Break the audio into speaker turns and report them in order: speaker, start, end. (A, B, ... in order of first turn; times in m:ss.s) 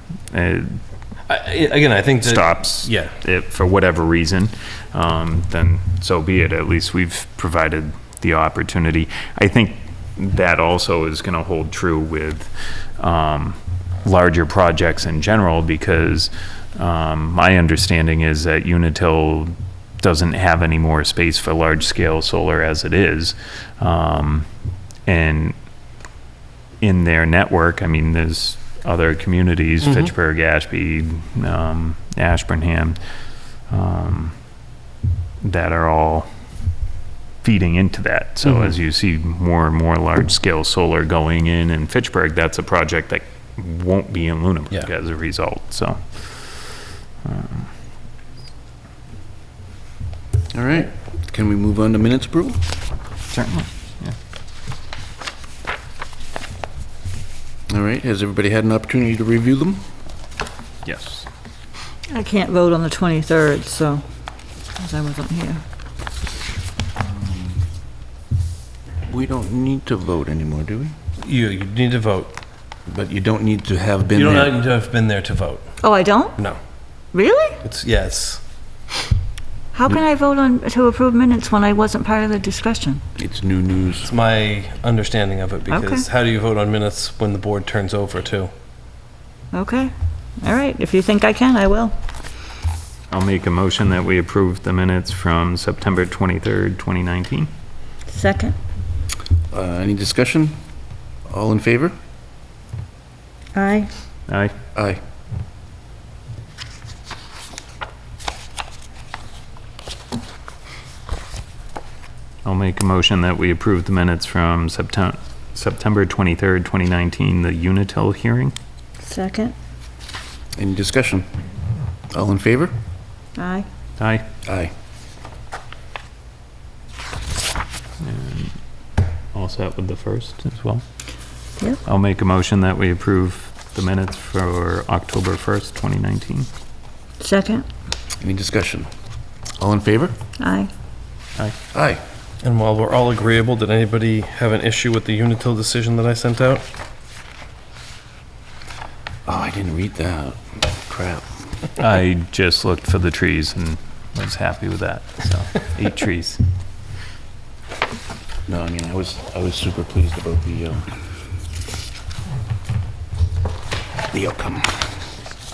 0:00.3-0:00.8 A
0:01.3-0:03.1 B
0:02.2-0:24.5 A
0:25.0-0:25.5 A
0:26.8-0:33.0 A
0:29.8-0:30.1 B
0:33.7-0:34.3 A
0:35.4-0:36.3 A
0:37.4-0:47.7 A
0:50.5-0:52.6 C
0:53.3-0:54.2 A
0:57.7-0:59.9 C
1:00.8-1:01.3 A
1:02.1-1:04.0 D
1:04.8-1:05.6 D
1:07.0-1:07.6 C
1:09.1-1:11.0 C
1:11.2-1:12.4 B
1:12.9-1:14.6 C
1:14.1-1:15.7 B
1:15.8-1:16.4 D
1:17.1-1:17.6 D
1:17.6-1:18.4 B
1:19.7-1:23.0 D
1:23.2-1:24.1 C
1:24.0-1:28.5 B
1:25.7-1:26.1 D
1:29.5-1:32.0 D
1:33.1-1:37.5 A
1:38.1-1:38.6 D
1:39.5-1:40.6 C
1:41.3-1:42.0 C
1:43.5-1:43.9 D
1:44.3-1:44.6 A
1:44.8-1:45.0 C
1:52.4-1:58.6 A
1:59.0-1:59.6 D
2:00.6-2:01.4 C
2:02.1-2:02.7 C
2:03.4-2:03.7 D
2:04.0-2:04.3 A
2:04.4-2:04.7 C
2:08.0-2:08.6 A
2:09.3-2:10.8 A
2:11.8-2:16.5 A
2:17.2-2:17.7 D
2:18.2-2:18.9 C
2:19.6-2:20.2 C
2:20.4-2:20.7 D
2:21.7-2:22.0 C
2:22.4-2:26.7 B
2:29.2-2:31.2 C
2:31.8-2:36.4 A
2:38.5-2:40.9 C
2:44.1-2:45.0 C